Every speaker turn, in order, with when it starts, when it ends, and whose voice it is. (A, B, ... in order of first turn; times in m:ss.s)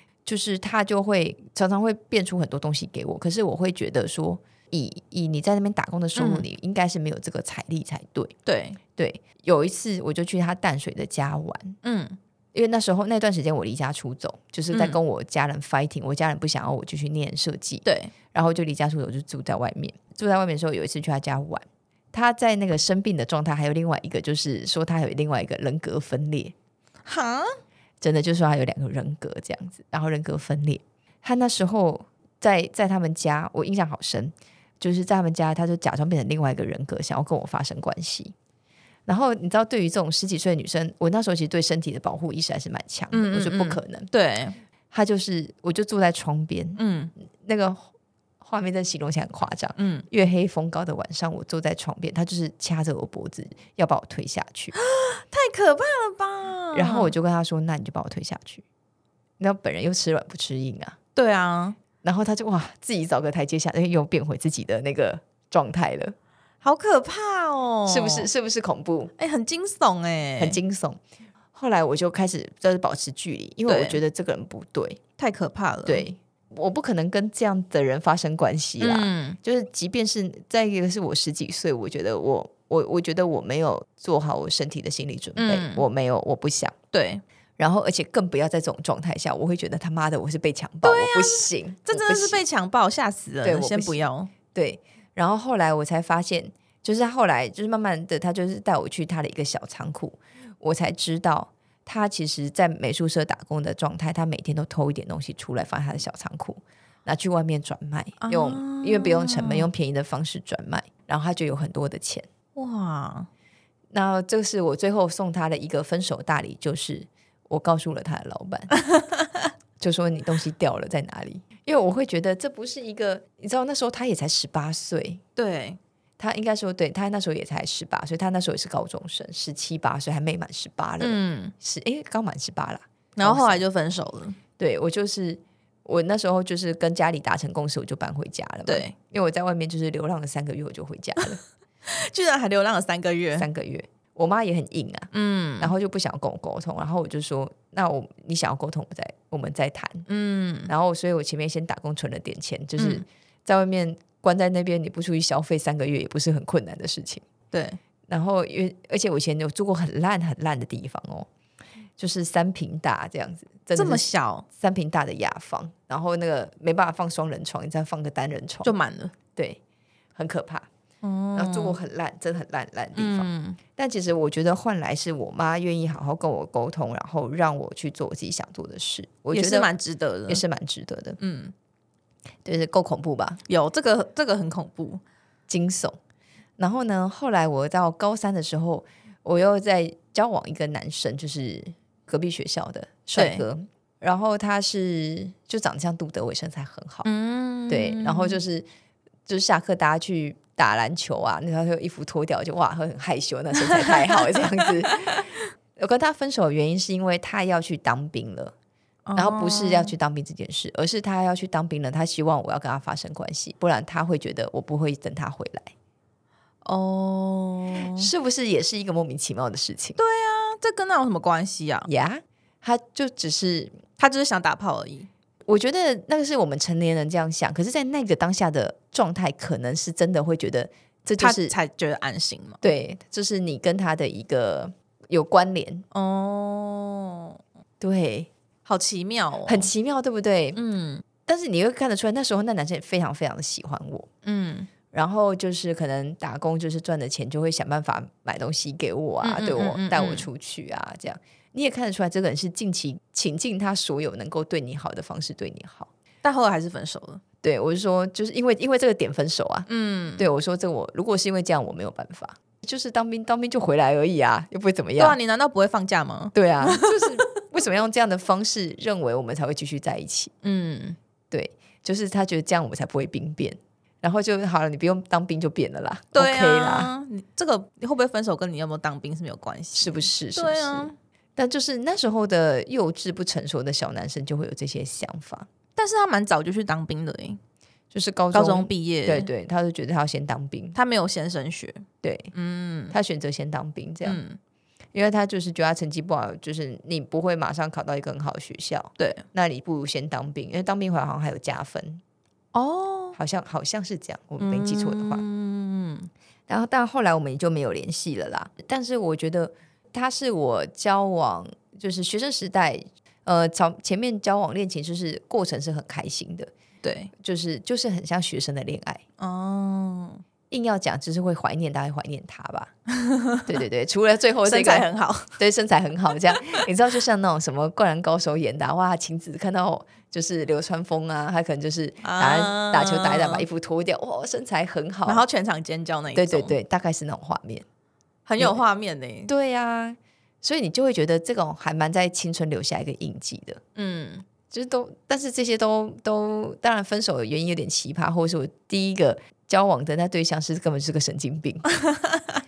0:00.2-0:08.3 A
0:06.1-0:06.5 B
0:08.4-0:08.8 B
0:09.0-0:11.8 A
0:11.8-0:12.2 B
0:12.5-0:26.5 A
0:14.7-0:15.0 B
0:17.8-0:18.1 B
0:27.0-0:27.5 B
0:28.0-0:38.3 A
0:39.1-0:44.1 A
0:43.1-0:44.6 B
0:44.9-0:46.8 A
0:46.8-0:47.1 B
0:47.4-0:47.9 A
0:48.4-0:54.7 A
0:49.8-0:50.0 B
0:54.7-0:57.1 B
0:56.7-0:58.6 A
0:59.4-1:01.0 A
1:01.2-1:01.8 B
1:02.0-1:06.2 A
1:06.6-1:08.3 B
1:07.8-1:09.1 A
1:09.2-1:10.6 B
1:10.4-1:11.0 A
1:11.5-1:15.0 A
1:13.7-1:14.0 B
1:15.2-1:16.1 B
1:15.8-1:26.7 A
1:18.8-1:19.4 B
1:25.4-1:25.8 B
1:26.9-1:27.2 B
1:27.6-1:32.4 A
1:30.8-1:34.3 B
1:33.4-1:34.0 A
1:34.5-1:52.3 A
1:48.2-1:49.7 B
1:52.5-1:53.3 B
1:53.9-1:58.7 A
1:59.8-2:05.2 A
2:05.4-2:05.8 B
2:06.2-2:13.6 A
2:11.0-2:11.5 B
2:13.2-2:14.4 B
2:14.6-2:21.4 A
2:18.7-2:18.9 B
2:21.8-2:23.5 B
2:23.4-2:30.1 A
2:25.1-2:25.7 B
2:30.1-2:30.7 B
2:30.7-2:37.2 A
2:32.8-2:33.0 B
2:37.5-2:37.8 B
2:38.1-2:41.3 A
2:42.0-2:48.7 A
2:43.7-2:44.4 B
2:48.6-2:49.1 B
2:49.3-2:49.6 A
2:50.1-2:50.7 A
2:51.0-2:51.8 B
2:51.3-2:59.7 A
2:53.0-2:53.6 B
2:59.3-3:00.4 B
3:00.3-3:01.2 A
3:01.2-3:01.5 B
3:02.4-3:03.4 A
3:03.5-3:05.0 B
3:05.5-3:06.0 A
3:06.6-3:17.1 A
3:13.1-3:13.4 B
3:17.0-3:18.4 B
3:17.7-3:18.6 A
3:19.2-3:28.5 A
3:23.5-3:25.4 B
3:29.0-3:29.9 B
3:29.2-3:35.7 A
3:36.6-3:38.1 B
3:37.8-3:40.0 A
3:40.0-3:41.9 B
3:41.9-3:43.8 A
3:44.0-3:45.1 B
3:45.4-3:51.6 A
3:51.2-3:52.6 B
3:52.6-3:55.8 A
3:55.9-3:57.4 B
3:57.8-3:58.3 A
3:58.6-3:59.7 B
3:59.4-4:00.6 A
4:00.5-4:01.0 B
4:01.2-4:04.1 A
4:04.2-4:04.7 B
4:04.9-4:15.9 A
4:09.2-4:10.3 B
4:16.2-4:17.2 B
4:17.4-4:25.2 A
4:19.7-4:20.2 B
4:25.0-4:27.3 B
4:26.3-4:30.3 A
4:30.4-4:31.0 B
4:31.3-4:36.9 A
4:36.1-4:41.0 B
4:39.7-4:45.5 A
4:45.8-4:47.4 B
4:47.9-4:50.8 A
4:48.3-4:49.3 B
4:50.7-4:53.0 B
4:52.0-4:52.3 A
4:52.9-4:54.2 A
4:54.0-4:54.4 B
4:54.9-5:02.0 A
4:59.0-4:59.2 B
5:02.5-5:03.2 B
5:03.1-5:05.2 A
5:04.4-5:06.1 B
5:06.5-5:16.5 A
5:16.8-5:17.1 B
5:17.2-5:19.0 A
5:19.2-5:20.2 B
5:20.5-5:22.7 A
5:23.0-5:23.4 B
5:23.4-5:35.2 A
5:24.4-5:25.4 B
5:32.0-5:33.4 B
5:35.0-5:36.5 B
5:36.1-5:37.6 A
5:38.2-5:39.3 B
5:39.3-5:43.6 A
5:43.8-5:44.2 B
5:44.5-5:51.7 A
5:51.9-5:52.2 B